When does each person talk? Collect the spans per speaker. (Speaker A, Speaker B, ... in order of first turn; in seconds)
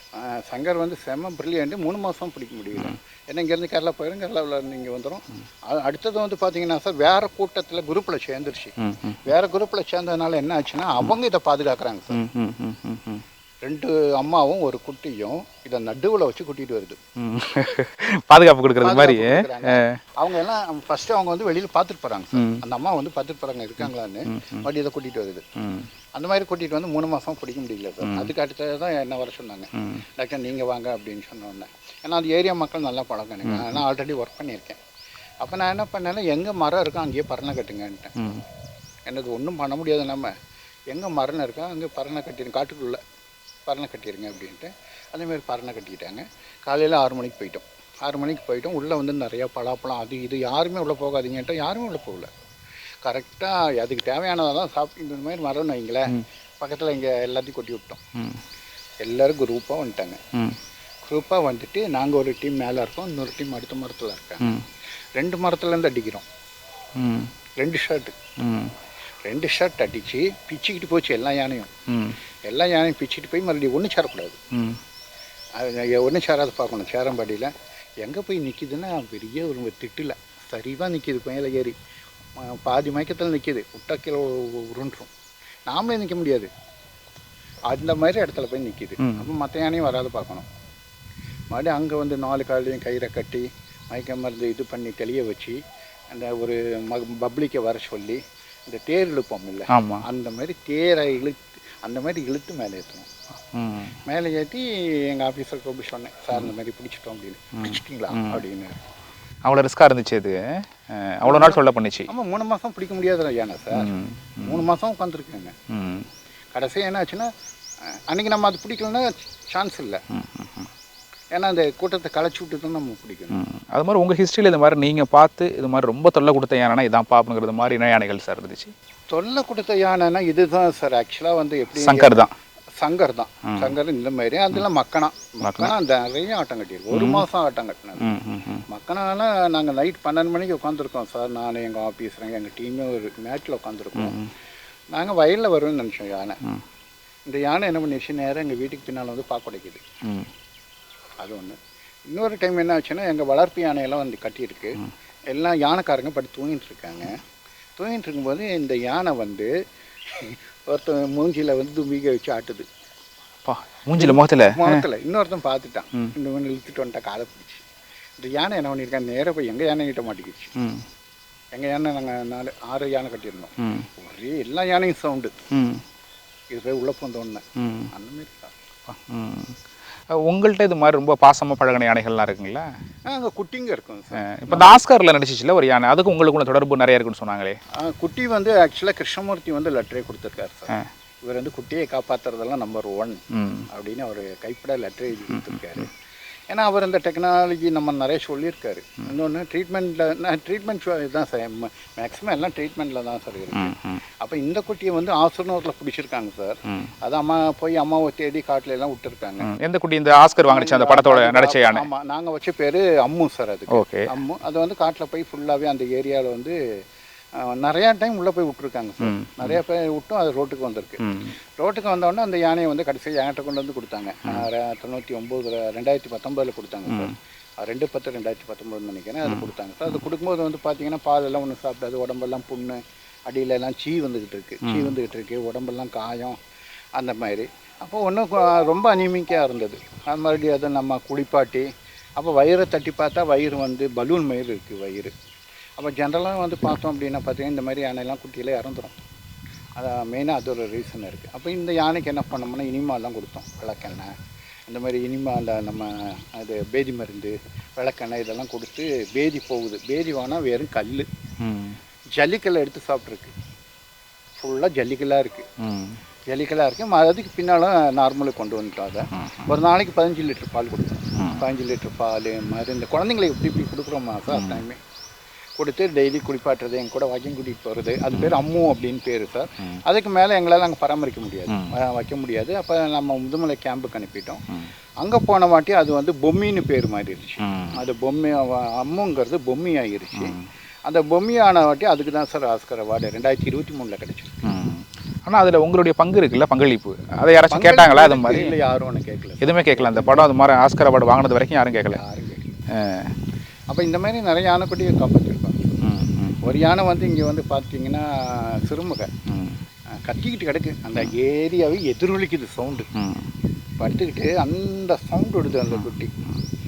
Speaker A: 0.1-8.7, 9.2-12.2, 13.6-17.0, 18.8-25.5, 26.1-34.8, 35.4-38.2, 39.1-40.3, 40.9-43.0, 43.7-52.3, 53.0-58.0, 59.0-60.2, 61.0-64.7, 65.2-66.2, 67.6-68.2, 69.2-71.7, 72.5-74.4, 75.6-81.8, 82.4-85.1, 85.7-86.5, 87.7-90.5, 91.5-95.6, 96.1-103.1, 104.0-108.8, 111.2-115.5, 116.5-117.3, 117.9-120.0, 121.3-123.4, 129.1-132.2, 132.8-144.2, 144.9-146.4, 147.3-149.8, 151.2-157.2, 157.8-159.5, 160.2-162.7, 163.9-167.7, 168.2-170.5, 171.5-175.4, 176.5-178.6, 183.1-184.8, 187.8-190.7, 191.2-195.9, 196.5-209.5, 210.4-216.6, 217.3-236.4, 237.0-245.1, 245.8-249.0, 249.8-254.2, 254.7-261.1, 262.2-263.3, 264.4-265.5, 266.3-274.8, 275.6-284.4, 285.0-294.5, 297.5-300.3, 301.9-302.6, 303.7-305.8, 306.4-309.1, 309.9-312.9, 313.8-316.2
Speaker B: 8.8-9.2, 12.1-13.2, 17.2-20.0, 22.4-22.6, 24.3-24.6, 25.6-25.9, 28.0-28.3, 33.5-33.8, 38.2-38.4, 58.2-58.4, 67.0-67.3, 68.4-68.8, 71.9-72.2, 74.5-74.8, 89.0-89.2, 99.7-100.0, 103.5-103.9, 107.6-108.4, 109.5-112.1, 113.7-114.6, 115.7-116.1, 120.1-120.7, 123.3-128.7, 131.8-132.3, 135.4-135.7, 136.9-137.3, 138.0-138.6, 144.0-144.3, 150.0-150.3, 163.4-164.8, 170.6-170.8, 173.6-173.9, 175.5-175.8, 177.6-177.9, 178.9-179.6, 180.1-182.7, 184.2-187.6, 193.3-193.7, 203.5-204.0, 209.4-211.9, 213.7-214.1, 219.0-219.6, 221.0-221.3, 234.6-234.9, 261.4-261.8, 265.6-266.0, 269.2-269.5, 271.2-271.4, 274.3-274.6, 278.1-278.4, 287.4-287.8, 290.1-290.4, 294.4-298.5, 299.4-302.0, 302.7-303.1, 305.8-306.4, 309.3-309.6, 312.9-313.3, 315.7-316.4